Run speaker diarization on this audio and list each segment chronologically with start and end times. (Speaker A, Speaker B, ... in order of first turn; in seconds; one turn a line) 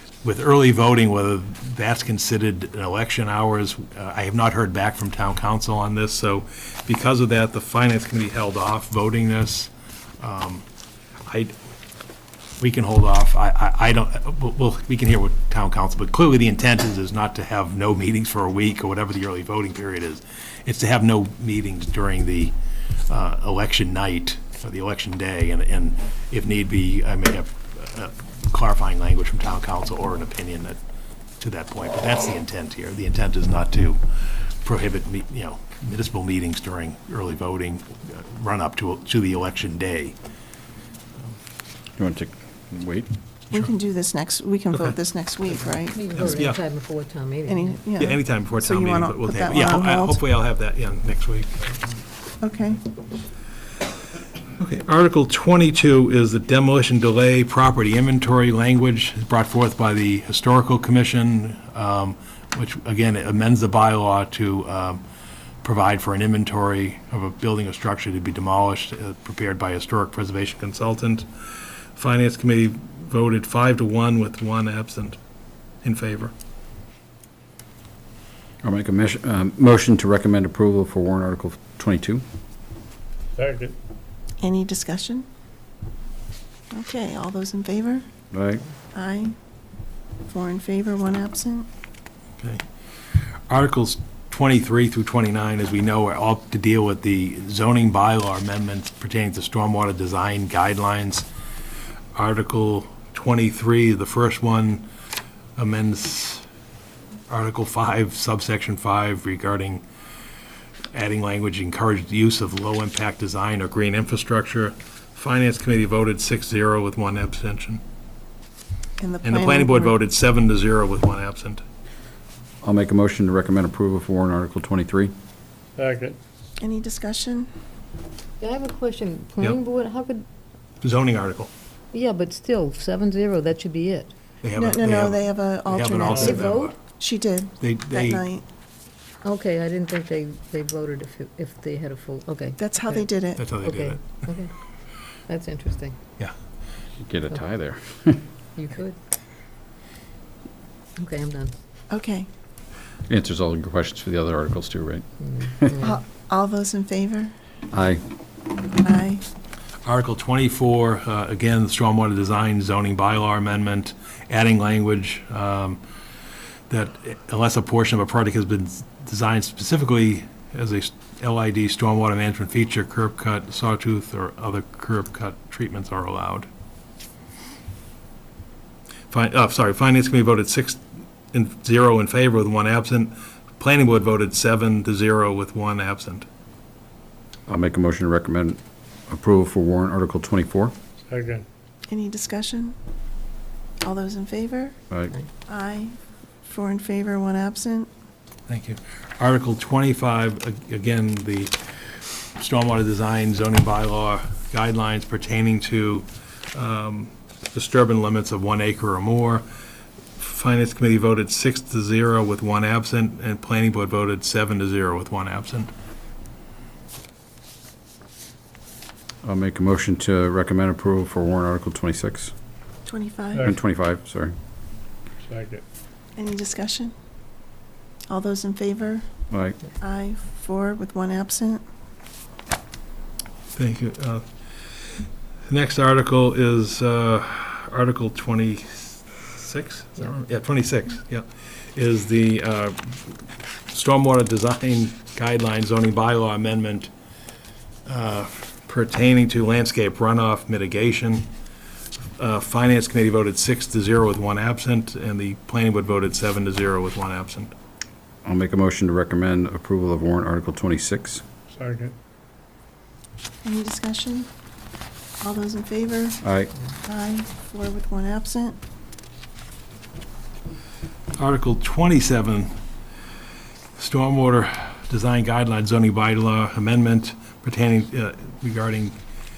Speaker A: 0.2-10.7
Speaker A: 11.3-11.6
Speaker A: 12.6-22.6
Speaker A: 23.1-30.8
Speaker A: 31.4-40.1
Speaker B: 42.0-43.1
Speaker C: 43.5-46.0
Speaker D: 45.9-47.8
Speaker A: 46.2-46.6
Speaker C: 47.5-50.2
Speaker A: 48.0-51.8
Speaker C: 52.4-52.8
Speaker A: 54.6-65.0
Speaker A: 65.6-71.3
Speaker A: 72.0-75.2
Speaker A: 75.8-76.3
Speaker B: 78.6-82.2
Speaker E: 83.3-83.8
Speaker C: 84.4-85.3
Speaker C: 86.7-88.0
Speaker B: 88.3-88.6
Speaker C: 88.9-89.3
Speaker C: 90.3-91.7
Speaker A: 93.5-101.3
Speaker A: 102.2-104.9
Speaker A: 105.6-106.5
Speaker A: 107.3-109.8
Speaker A: 110.9-117.8
Speaker C: 119.0-120.0
Speaker A: 119.2-121.6
Speaker B: 122.6-125.1
Speaker E: 125.8-126.2
Speaker C: 126.6-127.5
Speaker D: 128.4-130.3
Speaker A: 130.8-131.5
Speaker D: 131.9-134.1
Speaker A: 134.4-136.8
Speaker C: 134.6-138.4
Speaker D: 136.1-136.8
Speaker E: 136.1-136.4
Speaker A: 137.6-138.2
Speaker D: 139.2-143.1
Speaker C: 142.6-143.4
Speaker A: 143.4-144.3
Speaker D: 143.6-144.5
Speaker D: 145.3-146.0
Speaker B: 147.0-148.2
Speaker D: 148.6-149.0
Speaker D: 151.0-151.6
Speaker C: 151.9-152.3
Speaker B: 153.1-155.7
Speaker D: 155.3-155.9
Speaker C: 155.8-157.3
Speaker B: 157.7-158.0
Speaker C: 158.8-159.2
Speaker A: 159.8-165.8
Speaker A: 166.7-176.5
Speaker A: 179.1-186.3
Speaker B: 187.5-190.8
Speaker E: 191.1-191.5
Speaker C: 191.9-192.8
Speaker C: 193.8-194.8
Speaker C: 195.5-197.9
Speaker A: 198.5-201.6
Speaker A: 202.4-209.4
Speaker A: 210.2-215.7
Speaker B: 219.2-222.3
Speaker C: 222.9-223.5
Speaker B: 223.4-224.3
Speaker E: 225.2-225.6
Speaker C: 226.2-226.9
Speaker C: 228.1-229.1
Speaker B: 229.3-229.6
Speaker C: 229.8-231.6
Speaker A: 233.6-234.2
Speaker A: 235.5-246.9
Speaker A: 247.9-251.3
Speaker A: 252.2-257.5
Speaker B: 258.2-261.2
Speaker E: 261.5-261.9
Speaker C: 263.4-264.3
Speaker C: 265.2-266.2
Speaker B: 266.2-266.5
Speaker C: 266.8-268.6
Speaker A: 271.2-272.5
Speaker A: 273.8-279.0